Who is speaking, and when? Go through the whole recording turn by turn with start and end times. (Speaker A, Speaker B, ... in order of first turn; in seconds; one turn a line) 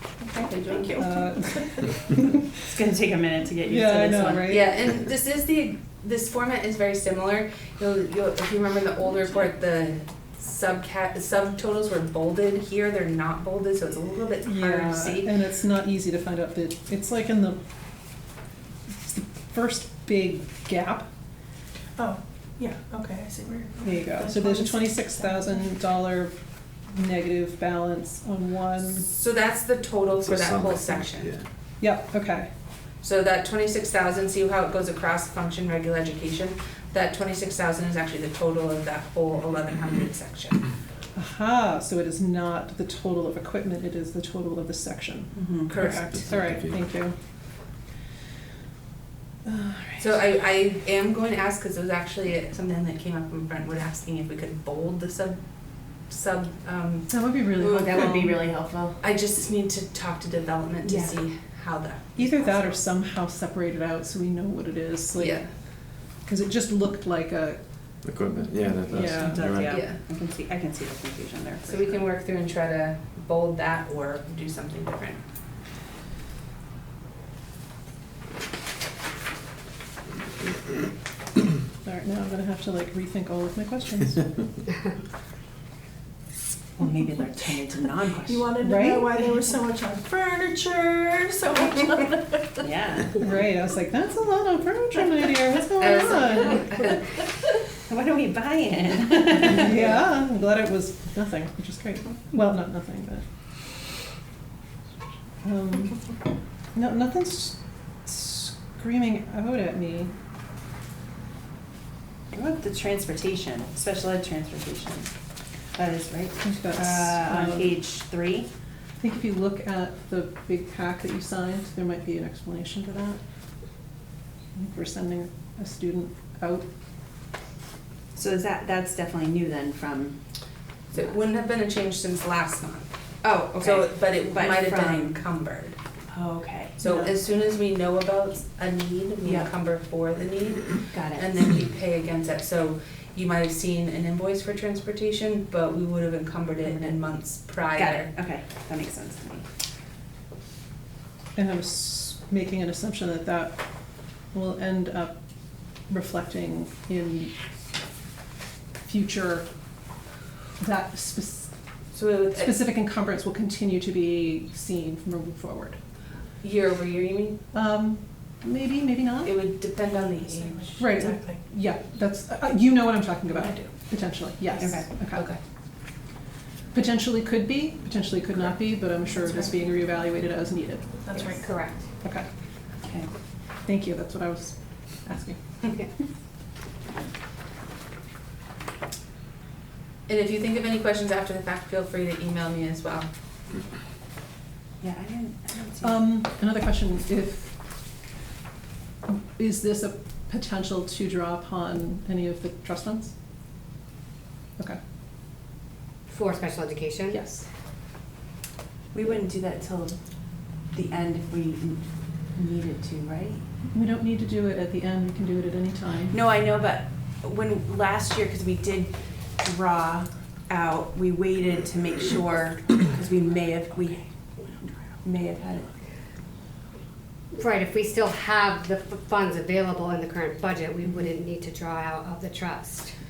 Speaker A: 0.2-0.6
Speaker B: 0.4-0.9
Speaker C: 0.9-2.4
Speaker A: 2.6-4.7
Speaker C: 3.6-4.7
Speaker B: 4.5-15.3
Speaker C: 14.4-17.6
Speaker C: 18.9-21.1
Speaker D: 21.9-25.4
Speaker C: 23.8-26.3
Speaker C: 26.9-29.1
Speaker B: 28.9-31.3
Speaker E: 30.1-31.4
Speaker C: 31.8-32.5
Speaker B: 33.0-40.6
Speaker C: 41.1-47.1
Speaker A: 45.4-45.7
Speaker B: 45.7-46.2
Speaker E: 45.9-46.8
Speaker C: 49.5-50.2
Speaker B: 50.0-55.4
Speaker B: 56.1-58.3
Speaker C: 57.1-58.3
Speaker A: 57.6-59.0
Speaker B: 59.0-62.8
Speaker A: 60.8-61.2
Speaker C: 62.1-65.5
Speaker B: 65.2-65.5
Speaker C: 66.2-67.6
Speaker E: 68.0-69.8
Speaker C: 68.9-69.5
Speaker A: 68.9-72.0
Speaker B: 69.7-70.0
Speaker B: 71.6-75.2
Speaker C: 81.8-84.3
Speaker A: 86.8-88.5
Speaker D: 88.3-92.4
Speaker C: 88.6-89.2
Speaker A: 92.6-93.2
Speaker C: 93.1-96.7
Speaker B: 95.8-97.0
Speaker A: 97.9-100.0
Speaker C: 99.3-103.2
Speaker C: 105.4-106.0
Speaker C: 106.7-110.1
Speaker A: 112.3-115.1
Speaker A: 115.7-118.5
Speaker C: 116.4-117.8
Speaker C: 119.0-123.2
Speaker C: 124.5-126.7
Speaker A: 128.1-130.2
Speaker B: 130.9-132.9
Speaker A: 133.2-135.2
Speaker B: 133.5-135.8
Speaker A: 136.1-136.8
Speaker B: 136.8-148.1
Speaker C: 136.8-137.1
Speaker A: 139.2-139.5
Speaker A: 140.9-141.3
Speaker A: 146.6-147.0
Speaker A: 147.7-149.4
Speaker C: 151.3-153.6
Speaker C: 154.3-155.1
Speaker C: 155.9-157.3
Speaker C: 158.8-159.4
Speaker C: 160.6-161.5
Speaker B: 161.9-162.6
Speaker C: 162.3-165.8
Speaker B: 166.4-167.4
Speaker C: 167.5-169.3
Speaker B: 169.2-170.8
Speaker D: 170.4-171.4
Speaker C: 170.8-175.3
Speaker A: 174.6-174.9
Speaker B: 175.1-175.4
Speaker C: 176.7-180.9
Speaker D: 181.0-181.5
Speaker F: 181.1-181.9
Speaker C: 182.0-182.3
Speaker A: 182.8-183.1
Speaker C: 183.6-185.4
Speaker B: 190.1-193.1
Speaker A: 194.8-196.0
Speaker C: 195.8-197.5
Speaker C: 199.1-203.1
Speaker F: 206.1-207.2
Speaker C: 207.1-207.4
Speaker A: 208.9-210.0
Speaker A: 210.7-211.8
Speaker A: 212.3-213.4
Speaker C: 213.7-216.1
Speaker A: 216.1-224.1
Speaker A: 225.0-225.7
Speaker F: 227.3-232.9